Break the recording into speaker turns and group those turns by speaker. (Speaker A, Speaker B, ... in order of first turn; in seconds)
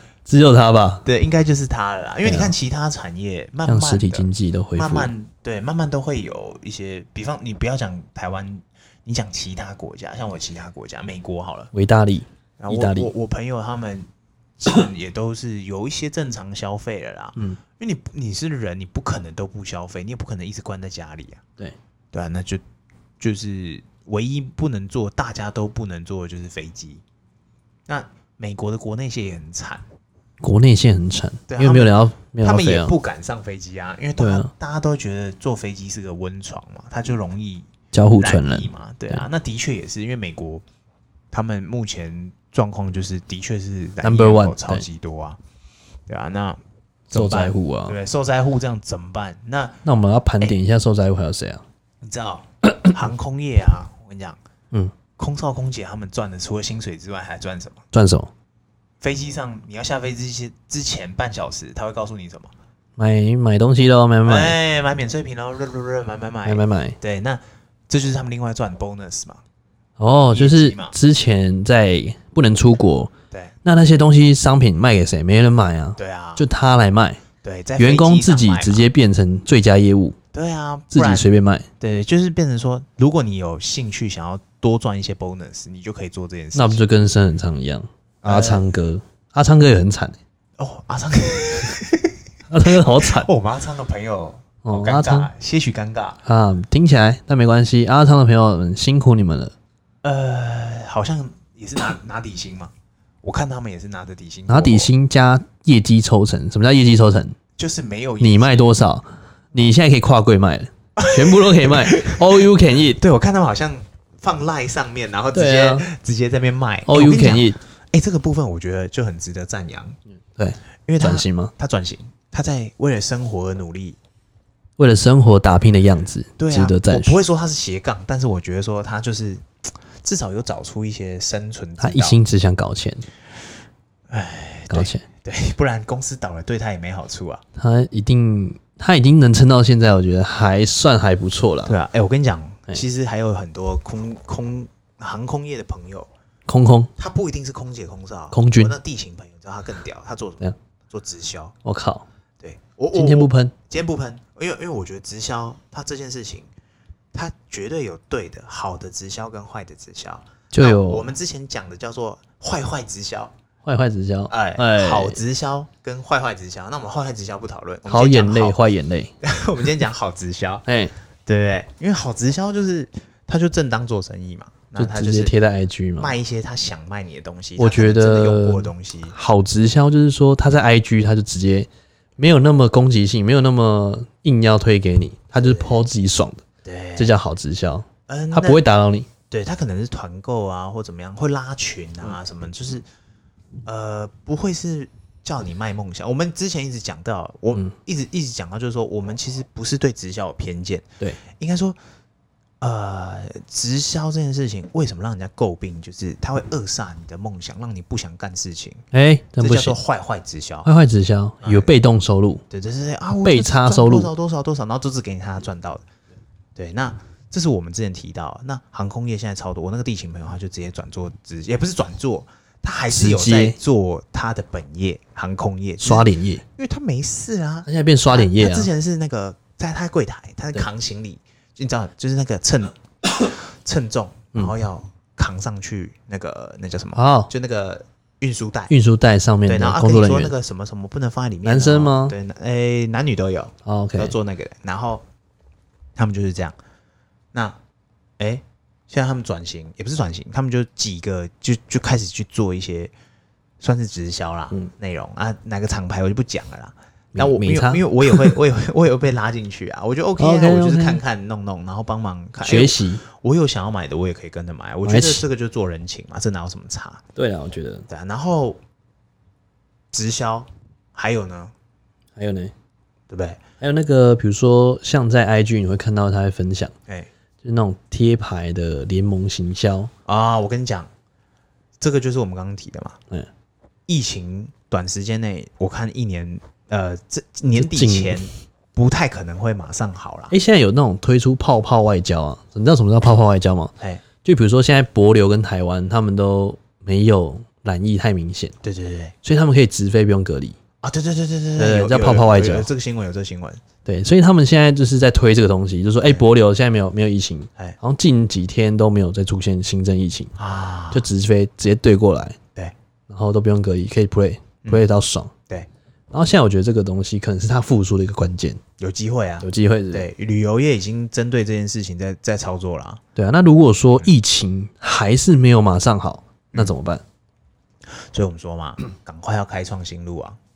Speaker A: 0.3-1.1, 2.2-2.5, 3.7-5.1, 11.7-13.1, 30.4-33.0, 34.2-34.5, 37.9-39.3, 44.0-44.9, 47.1-48.0, 49.9-51.6, 57.9-58.3, 63.0-64.6, 66.5-67.0, 70.0-73.1, 73.6-77.2, 77.8-80.2, 80.9-81.7, 86.5-90.2, 92.5-93.3, 94.6-95.3, 96.2-99.5, 104.5-107.4, 108.2-113.0, 115.3-115.8, 116.9-117.6, 120.4-121.5, 124.8-127.2, 131.8-133.1, 134.7-135.1, 137.6-141.8, 146.5-146.9, 148.3-148.7, 151.6-152.1, 152.9-153.6, 160.5-161.1, 163.7-165.2, 167.9-169.1, 170.7-170.9, 174.8-176.2, 177.6-186.4, 187.0-189.1, 208.9-209.8, 210.7-212.4, 213.2-214.1, 222.9-223.6, 225.8-226.4, 227.7-228.7, 236.9-237.3, 238.7-240.3, 241.4-242.2, 243.7-244.2, 257.1-258.4, 260.2-261.0, 262.4-263.1, 264.9-265.2, 267.2-267.9, 272.2-272.5, 273.6-276.7, 277.4-279.9, 287.5-288.3, 290.3-293.7, 294.2-298.6, 299.2-300.6, 301.6-302.7, 303.9-310.3, 310.9-312.4, 313.1-315.3, 316.1-318.6, 319.4-320.1, 323.2-327.0
Speaker B: 1.1-11.7, 12.6-14.1, 14.6-21.4, 22.1-22.6, 23.2-27.0, 27.9-29.9, 31.5-40.6, 41.3-45.4, 46.1-49.8, 52.0-54.4, 55.2-57.8, 59.0-62.5, 64.2-69.4, 70.3-70.9, 76.0-76.5, 77.4-78.9, 80.3-81.3, 81.8-86.8, 88.2-88.6, 90.6-96.2, 100.0-104.9, 107.6-108.6, 111.0-120.0, 120.9-124.0, 126.4-132.2, 134.1-137.4, 141.7-146.1, 147.0-151.6, 152.4-156.5, 157.1-163.3, 164.3-170.7, 171.3-175.3, 176.0-179.2, 185.4-185.8, 186.6-187.1, 188.1-188.6, 189.3-192.8, 193.7-201.8, 202.6-208.8, 209.4-210.7, 211.4-211.7, 212.5-215.8, 216.6-238.7, 239.5-245.1, 246.0-246.6, 248.2-252.9, 253.6-267.0, 267.9-268.6, 269.9-271.5, 273.1-273.4, 280.1-280.9, 281.8-283.0, 283.9-290.3, 298.6-299.1, 300.8-303.6, 310.4-311.1, 318.8-323.0, 328.0-330.4